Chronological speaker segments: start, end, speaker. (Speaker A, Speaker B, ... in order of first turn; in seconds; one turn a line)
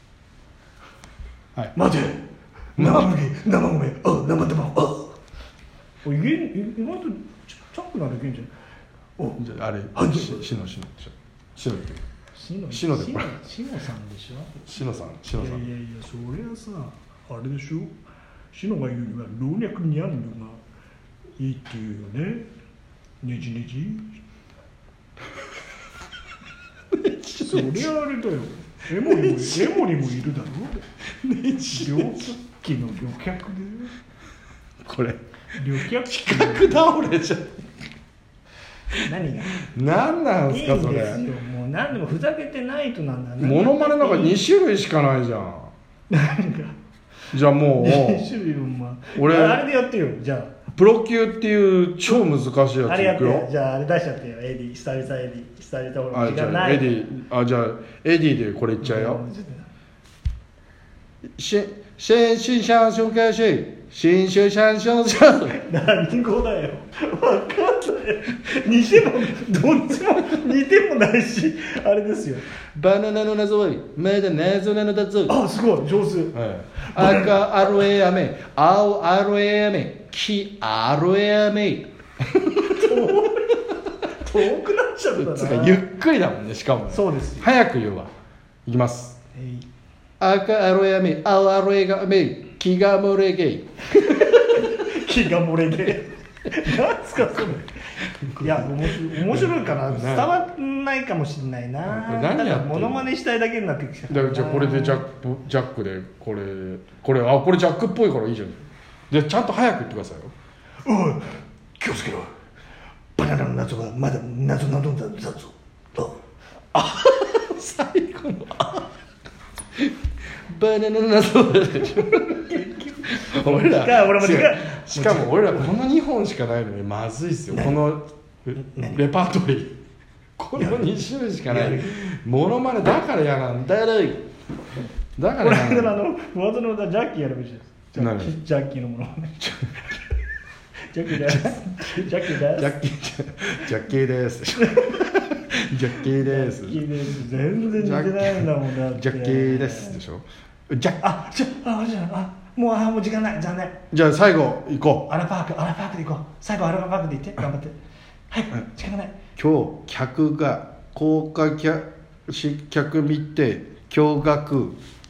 Speaker A: 1.8-2.2
Speaker A: 2.8-5.1
Speaker B: 2.8-3.1
Speaker A: 6.0-8.5
Speaker B: 9.4-12.0
Speaker A: 9.9-10.5
Speaker A: 12.4-14.5
Speaker B: 12.7-13.3
Speaker B: 14.6-15.6
Speaker A: 15.3-17.9
Speaker A: 18.5-20.6
Speaker A: 21.4-22.5
Speaker A: 23.2-24.1
Speaker B: 26.9-27.9
Speaker A: 27.4-30.8
Speaker B: 28.9-29.9
Speaker B: 31.2-32.4
Speaker A: 31.7-33.9
Speaker B: 34.8-37.6
Speaker A: 35.5-36.9
Speaker A: 39.0-39.6
Speaker B: 39.6-41.3
Speaker A: 40.5-44.4
Speaker B: 43.4-45.7
Speaker A: 46.1-46.7
Speaker B: 47.3-48.3
Speaker A: 47.8-50.5
Speaker B: 49.1-49.6
Speaker B: 50.7-53.5
Speaker A: 52.9-57.1
Speaker B: 56.1-59.2
Speaker A: 58.8-59.7
Speaker B: 61.4-65.6
Speaker A: 65.4-72.5
Speaker B: 72.7-75.4
Speaker A: 75.3-77.8
Speaker B: 76.3-83.3
Speaker A: 82.6-85.8
Speaker B: 85.2-88.1
Speaker A: 86.9-87.5
Speaker B: 88.7-89.2
Speaker A: 89.3-89.7
Speaker B: 90.2-94.4
Speaker A: 94.0-97.8
Speaker B: 98.2-100.3
Speaker A: 98.4-105.0
Speaker B: 101.9-103.1
Speaker B: 104.1-110.3
Speaker A: 110.8-112.3
Speaker A: 113.2-116.2
Speaker B: 116.7-118.9
Speaker B: 119.8-129.8
Speaker A: 121.9-125.7
Speaker A: 127.5-127.8
Speaker A: 128.6-129.1
Speaker B: 130.4-134.3
Speaker A: 130.6-130.9
Speaker A: 131.4-132.0
Speaker B: 135.2-136.0
Speaker A: 135.4-140.0
Speaker B: 137.9-138.3
Speaker A: 140.9-142.8
Speaker B: 141.1-147.0
Speaker A: 144.6-145.1
Speaker A: 145.9-150.0
Speaker B: 147.8-151.0
Speaker A: 151.0-153.8
Speaker B: 153.9-155.1
Speaker A: 155.1-157.8
Speaker A: 158.3-159.2
Speaker B: 159.4-164.8